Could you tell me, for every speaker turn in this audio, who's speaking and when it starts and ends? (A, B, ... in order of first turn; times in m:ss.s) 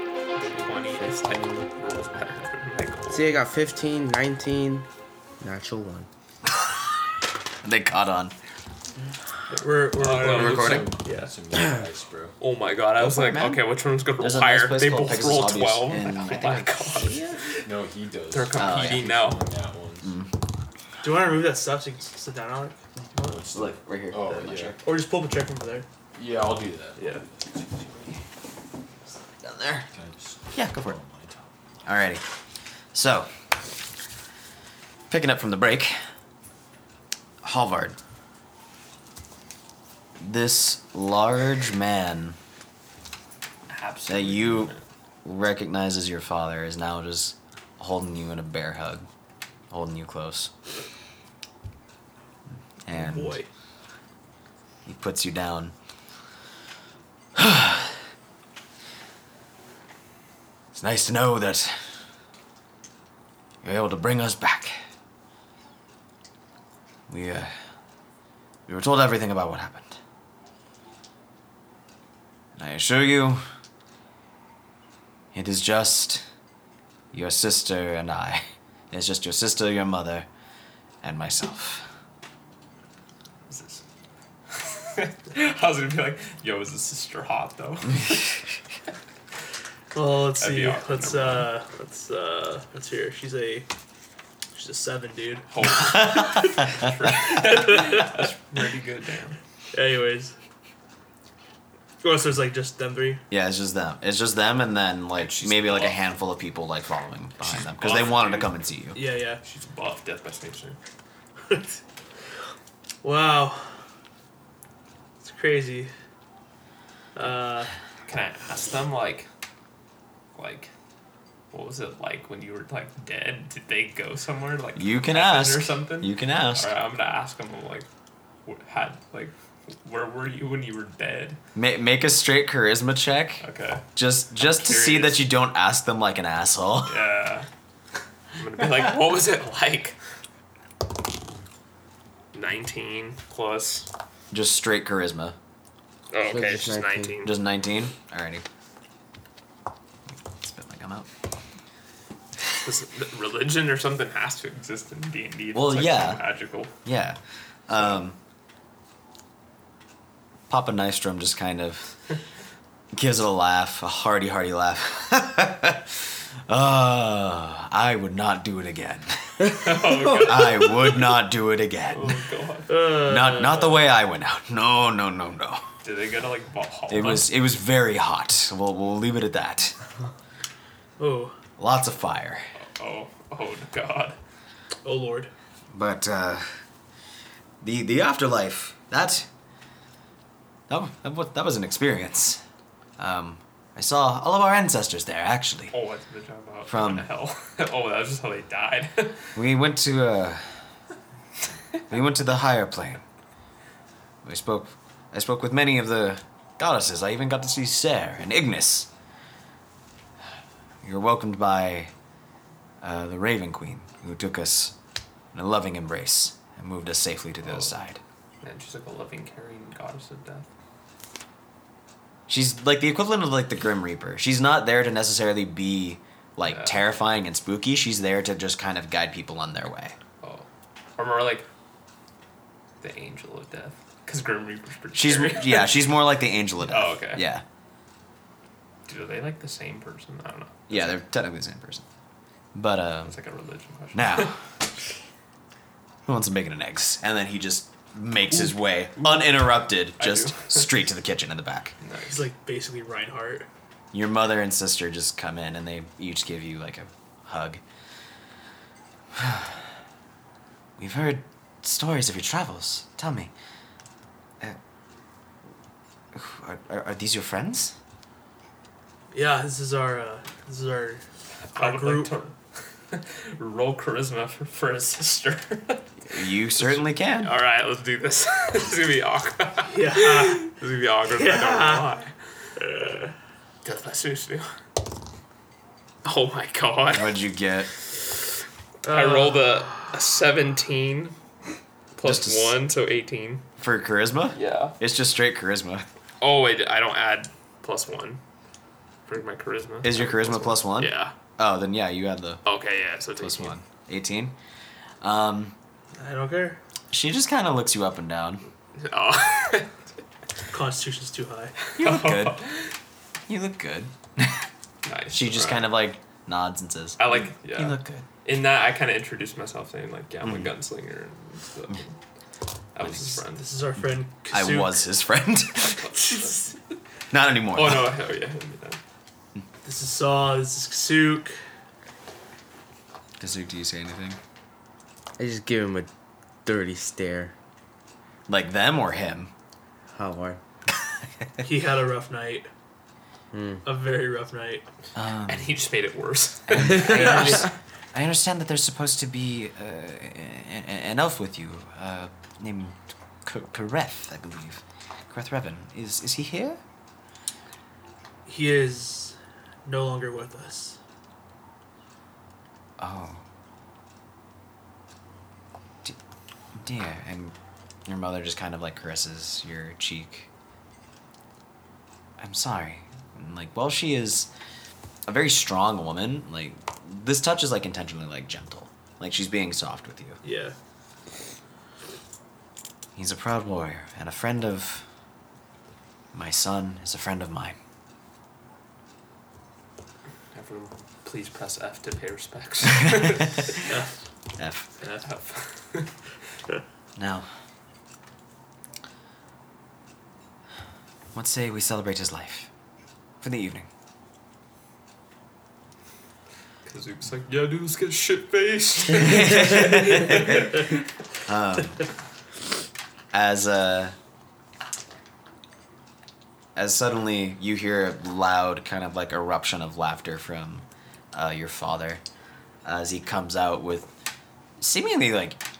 0:00.3-0:03.4 A
0:00.4-0:01.6 B
0:03.1-0:04.9 B
0:05.4-0:06.1 B
0:06.5-0:06.8 C
0:07.6-0:08.3 C
0:09.6-0:10.9 A
0:09.6-0:11.3 D
0:10.1-0:12.3 E
0:10.4-0:10.9 C
0:12.4-0:17.3 A
0:13.0-0:13.6 C
0:14.2-0:16.8 C
0:17.6-0:20.2 E
0:18.3-0:19.4 A
0:18.6-0:19.1 C
0:20.0-0:20.3 C
0:21.0-0:22.8 D
0:23.0-0:24.8 C
0:23.2-0:24.8 E
0:24.8-0:25.8 D
0:26.1-0:28.2 E
0:27.0-0:27.2 D
0:29.3-0:29.9 C
0:29.9-0:31.5 E
0:30.5-0:31.0 C
0:31.8-0:32.2 C
0:32.9-0:33.3 C
0:35.1-0:36.0 C
0:37.4-0:38.0 C
0:40.2-0:42.4 C
0:43.7-0:44.8 A
0:44.1-0:44.7 C
0:45.2-0:49.1 C
0:49.7-0:50.5 C
0:52.8-0:53.4 C
0:52.9-0:53.5 D
0:54.8-0:55.7 C
0:57.4-0:58.0 C
1:00.7-1:02.0 C
1:03.6-1:04.8 C
1:07.1-1:07.5 C
1:08.7-1:10.0 C
1:12.5-1:13.4 C
1:15.3-1:16.2 C
1:17.1-1:20.3 C
1:21.0-1:21.9 C
1:23.5-1:23.8 A
1:24.5-1:28.2 A
1:29.9-1:33.7 D
1:30.4-1:31.5 A
1:34.5-1:35.5 D
1:35.5-1:39.4 A
1:35.8-1:36.6 C
1:37.1-1:38.3 D
1:39.7-1:40.3 D
1:42.0-1:43.2 D
1:43.3-1:49.0 C
1:45.2-1:46.0 A
1:47.4-1:48.7 A
1:48.9-1:49.4 D
1:49.4-1:50.8 A
1:51.5-1:51.8 D
1:53.0-1:53.8 D
1:55.2-1:55.9 D
1:57.1-1:57.7 D
1:58.1-1:59.3 A
2:00.3-2:00.7 A
2:01.5-2:07.9 A
2:04.8-2:06.7 C
2:08.4-2:11.4 A
2:11.5-2:17.1 C
2:13.4-2:13.8 A
2:14.6-2:15.2 A
2:16.8-2:17.5 A
2:18.3-2:20.0 A
2:22.3-2:23.9 A
2:24.3-2:25.4 C
2:26.1-2:27.4 A
2:26.2-2:27.2 B
2:27.2-2:28.4 C
2:30.1-2:31.1 C
2:32.6-2:36.7 A
2:35.5-2:36.2 C
2:36.8-2:38.2 C
2:40.5-2:41.9 C
2:42.9-2:52.1 C
2:49.5-2:51.1 A
2:51.9-2:52.7 A
2:52.7-2:53.8 D
2:53.0-2:55.6 C
2:55.8-2:57.3 A
2:56.9-2:59.8 C
3:01.0-3:01.4 D
3:01.6-3:02.4 C
3:02.6-3:04.2 A
3:04.8-3:05.3 D
3:05.7-3:06.4 C
3:07.6-3:09.3 C
3:10.7-3:12.4 C
3:13.0-3:15.7 C
3:15.7-3:19.3 A
3:16.7-3:17.1 C
3:19.3-3:20.5 C
3:21.9-3:23.0 C
3:24.2-3:28.9 C
3:30.8-3:31.9 C
3:32.8-3:34.8 C
3:35.3-3:38.0 C
3:37.4-3:37.7 A
3:38.4-3:40.5 A
3:42.3-3:50.0 C
3:46.4-3:46.8 A
3:50.2-3:51.4 A
3:52.8-3:55.8 A
3:54.9-3:57.4 C
3:56.6-3:57.2 A
3:58.9-4:01.0 A
4:00.7-4:01.8 C
4:02.5-4:03.1 C
4:03.0-4:04.3 A
4:03.9-4:04.4 C
4:06.0-4:11.7 C
4:09.0-4:09.2 A
4:10.0-4:10.7 A
4:11.8-4:12.2 A
4:12.1-4:13.5 D
4:13.9-4:17.6 C
4:19.1-4:19.7 C
4:20.8-4:23.3 C
4:26.1-4:27.8 C
4:29.1-4:32.1 D
4:31.4-4:32.4 A
4:32.9-4:42.1 A
4:36.1-4:37.3 C
4:39.7-4:40.5 D
4:41.1-4:41.9 D
4:42.6-4:43.1 D
4:43.6-4:44.5 A
4:46.0-4:47.2 A
4:46.9-4:47.7 C
4:48.8-4:49.8 D
4:48.9-4:51.1 A
4:52.0-4:53.4 A
4:52.0-4:52.6 C
4:53.6-4:55.8 C
4:54.3-4:54.8 A
4:56.2-4:58.2 A
4:59.1-5:01.1 A
4:59.8-5:02.4 C
5:02.4-5:03.5 A
5:03.2-5:04.4 C
5:05.0-5:05.6 C
5:06.0-5:06.6 D
5:06.9-5:08.4 C
5:08.8-5:09.7 A
5:10.5-5:11.5 D
5:11.7-5:12.7 A
5:11.8-5:12.4 C
5:13.3-5:14.5 C
5:14.8-5:15.7 A
5:15.1-5:18.0 C
5:17.0-5:21.9 A
5:20.2-5:20.5 C
5:22.7-5:23.4 A
5:23.0-5:24.8 D
5:24.3-5:25.9 C
5:25.7-5:26.6 A
5:26.0-5:26.5 D
5:27.1-5:27.9 C
5:27.5-5:28.8 A
5:29.6-5:31.4 D
5:33.2-5:34.2 C
5:35.2-5:35.9 B
5:36.4-5:37.3 B
5:38.3-5:39.3 C
5:39.9-5:40.4 B
5:41.4-5:42.5 D
5:43.3-5:43.6 B
5:43.6-5:44.6 D
5:44.9-5:45.6 C
5:45.3-5:47.4 A
5:46.5-5:56.6 C
5:58.2-6:00.8 D
6:02.8-6:03.2 C
6:06.5-6:07.3 C
6:07.9-6:10.3 C
6:12.2-6:14.3 C
6:15.1-6:20.2 C
6:20.2-6:20.5 D
6:23.0-6:24.9 C
6:26.1-6:27.6 C
6:30.3-6:33.7 A
6:34.4-6:34.7 C
6:34.8-6:35.9 A
6:37.0-6:37.3 C
6:41.1-6:42.5 C
6:43.2-6:43.7 C
6:46.6-6:50.7 A
6:49.0-6:50.5 C
6:51.2-6:51.8 C
6:53.1-6:54.0 C
6:56.5-7:02.0 C
7:02.6-7:03.9 C
7:04.6-7:05.4 C